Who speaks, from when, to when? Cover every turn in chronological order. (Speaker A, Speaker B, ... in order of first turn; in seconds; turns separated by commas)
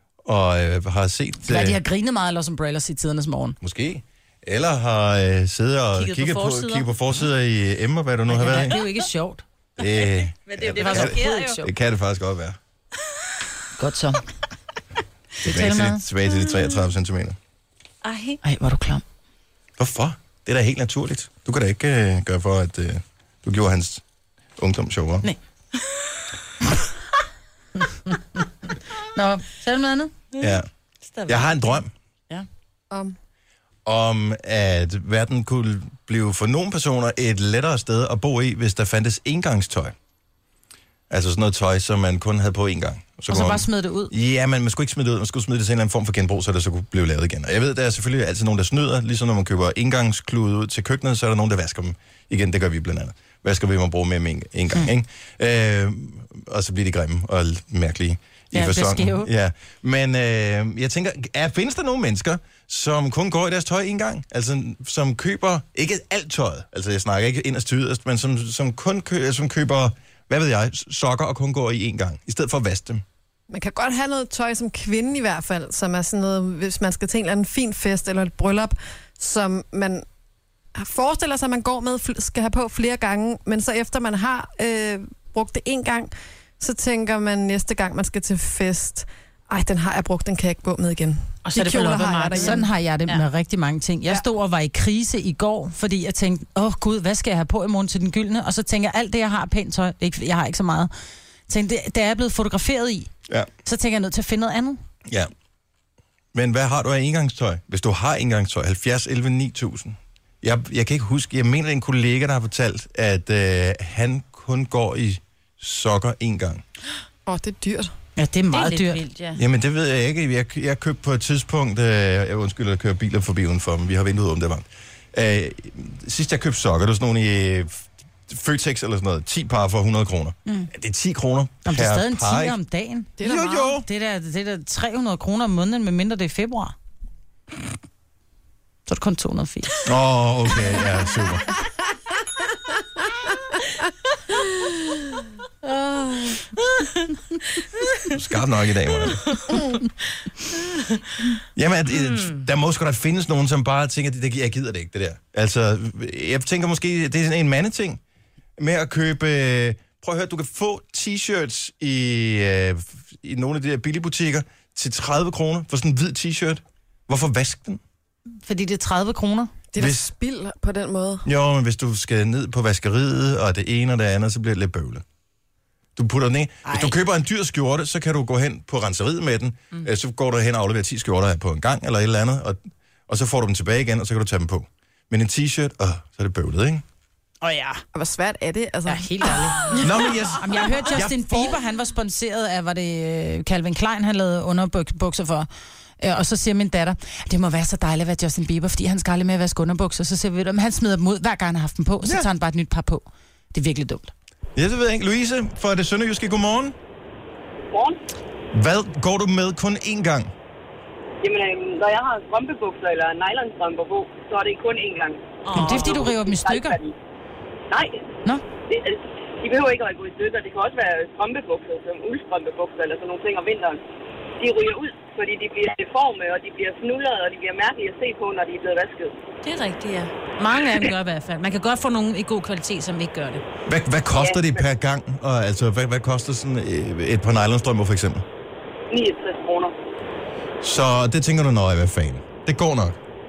Speaker A: 0.2-1.8, Speaker B: 1.5-3.6, Speaker A: 3.6-8.8, Speaker C: 6.0-6.8, Speaker B: 8.3-9.4, Speaker C: 8.7-9.0, Speaker A: 9.8-12.6, Speaker C: 9.9-11.6, Speaker B: 10.7-11.7, Speaker B: 13.8-14.3, Speaker B: 15.4-16.0, Speaker A: 15.4-17.4, Speaker C: 18.0-18.4, Speaker B: 18.4-19.0, Speaker A: 19.8-24.0, Speaker A: 24.6-25.3, Speaker B: 28.1-28.5, Speaker B: 29.1-30.1, Speaker C: 30.3-31.7, Speaker A: 30.4-30.7, Speaker A: 31.3-31.9, Speaker D: 32.9-33.2, Speaker A: 33.9-40.0, Speaker A: 41.1-73.0, Speaker B: 43.3-44.1, Speaker B: 58.5-59.3, Speaker D: 73.5-80.0, Speaker D: 80.8-92.6, Speaker C: 91.4-93.2, Speaker B: 92.3-100.9, Speaker B: 101.5-103.1, Speaker B: 103.7-104.8, Speaker A: 105.1-105.3, Speaker A: 106.3-116.6, Speaker D: 117.3-117.9, Speaker B: 118.2-119.0, Speaker C: 118.5-119.4, Speaker A: 119.4-132.6, Speaker B: 131.7-133.2, Speaker D: 133.2-133.7, Speaker A: 133.2-133.9, Speaker B: 133.7-136.7, Speaker B: 138.9-139.8, Speaker A: 139.8-141.5, Speaker A: 148.1-149.2, Speaker A: 151.6-158.0, Speaker A: 158.6-167.8, Speaker B: 168.4-169.5, Speaker D: 169.7-171.3, Speaker A: 169.8-170.1, Speaker A: 171.2-175.0, Speaker A: 176.0-186.8, Speaker B: 176.7-176.9, Speaker B: 187.4-187.8, Speaker D: 187.9-189.4, Speaker B: 188.9-195.5, Speaker A: 189.8-191.5, Speaker B: 196.0-204.1, Speaker A: 202.0-202.3, Speaker A: 204.6-206.8, Speaker E: 207.7-208.0, Speaker A: 208.5-210.3, Speaker E: 211.2-217.0, Speaker C: 215.4-216.1, Speaker B: 215.5-216.8, Speaker E: 217.7-218.0, Speaker E: 218.7-223.8, Speaker E: 224.4-229.2, Speaker C: 229.4-233.4, Speaker A: 233.7-238.2, Speaker E: 234.1-234.6, Speaker E: 238.9-239.8, Speaker A: 240.6-243.0